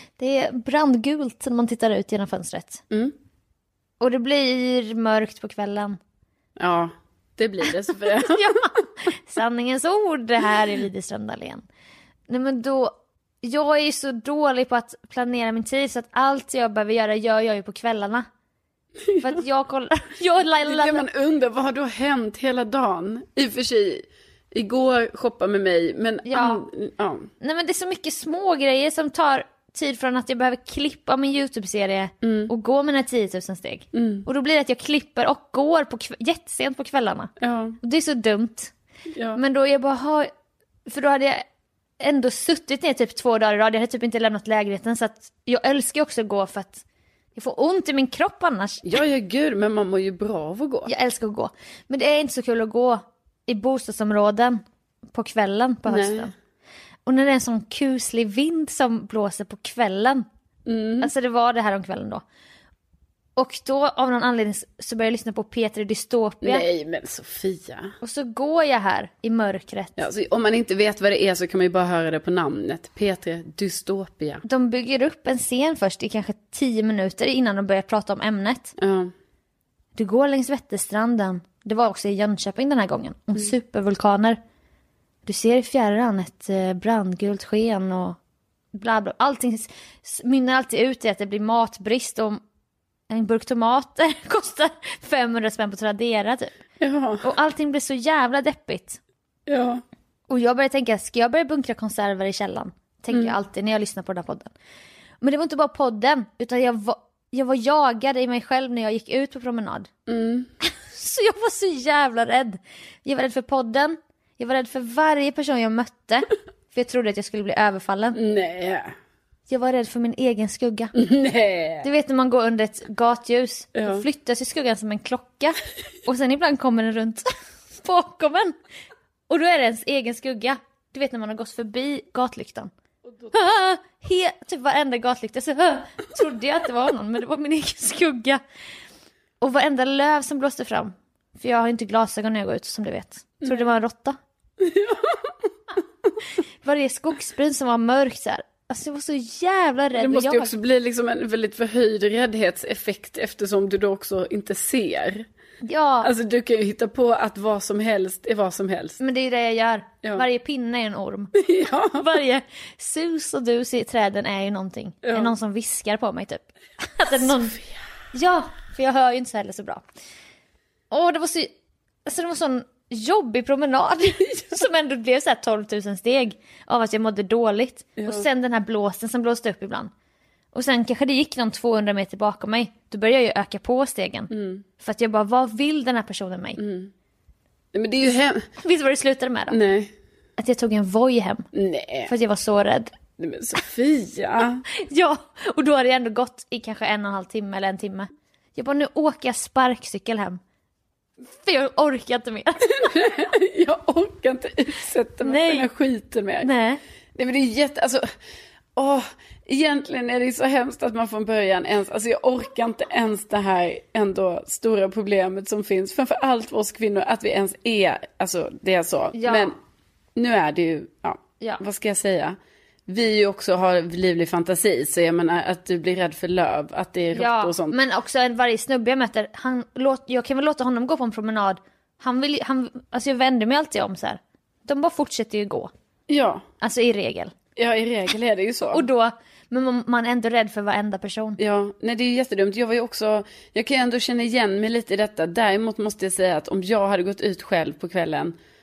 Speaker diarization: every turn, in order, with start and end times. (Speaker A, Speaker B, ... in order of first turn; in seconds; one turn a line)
Speaker A: 0.2-2.8
Speaker A: 4.0-6.0
Speaker B: 6.6-8.5
Speaker A: 8.3-11.6
Speaker A: 12.3-18.2
Speaker B: 19.1-19.3
Speaker A: 19.2-21.0
Speaker B: 20.6-27.3
Speaker A: 26.2-26.6
Speaker A: 27.4-38.7
Speaker B: 32.2-32.5
Speaker B: 33.9-34.2
Speaker B: 37.4-37.8
Speaker B: 39.1-39.4
Speaker A: 39.4-40.3
Speaker A: 40.9-41.4
Speaker A: 42.0-46.8
Speaker A: 47.3-48.8
Speaker B: 48.8-50.9
Speaker A: 50.9-54.6
Speaker A: 55.1-56.3
Speaker B: 55.9-56.3
Speaker A: 57.0-60.2
Speaker B: 60.6-61.1
Speaker A: 61.0-62.2
Speaker A: 63.4-66.6
Speaker B: 66.4-67.9
Speaker A: 68.0-70.0
Speaker B: 70.0-74.4
Speaker A: 74.4-78.7
Speaker B: 78.8-79.1
Speaker A: 80.0-84.4
Speaker A: 85.2-88.2
Speaker A: 88.7-92.4
Speaker A: 93.1-96.5
Speaker B: 96.8-97.3
Speaker A: 97.2-99.0
Speaker B: 99.5-99.8
Speaker A: 100.3-104.5
Speaker A: 105.2-109.9
Speaker B: 110.1-110.5
Speaker A: 110.6-118.2
Speaker B: 118.1-118.9
Speaker A: 119.5-120.9
Speaker B: 120.9-121.9
Speaker A: 121.8-128.5
Speaker B: 123.8-124.0
Speaker A: 129.3-132.7
Speaker B: 133.0-133.3
Speaker A: 133.3-138.4
Speaker A: 139.4-144.2
Speaker B: 143.4-143.7
Speaker B: 144.6-145.3
Speaker A: 146.6-150.5
Speaker B: 150.0-155.2
Speaker A: 155.6-156.1
Speaker B: 156.0-159.0
Speaker A: 159.0-161.3
Speaker B: 161.4-162.0
Speaker A: 162.0-167.5
Speaker B: 165.0-165.3
Speaker B: 167.2-167.7
Speaker A: 168.1-169.8
Speaker A: 170.9-171.5
Speaker A: 172.1-179.9
Speaker B: 178.0-178.2
Speaker A: 180.5-186.6
Speaker B: 184.3-184.6
Speaker B: 186.6-186.9
Speaker B: 187.7-188.4
Speaker A: 188.6-189.6
Speaker B: 189.5-189.9
Speaker A: 190.4-191.5
Speaker B: 191.5-192.1
Speaker A: 192.1-192.9
Speaker B: 193.2-194.6
Speaker A: 194.7-200.4
Speaker A: 201.4-202.9
Speaker B: 202.8-206.5
Speaker A: 205.2-205.7
Speaker A: 206.4-206.8
Speaker B: 207.2-208.0
Speaker B: 208.8-219.6
Speaker A: 219.1-219.5
Speaker B: 220.2-227.7
Speaker A: 227.1-235.7
Speaker B: 236.1-236.4
Speaker A: 236.6-237.3
Speaker B: 237.6-238.9
Speaker A: 238.7-241.4
Speaker B: 241.4-248.3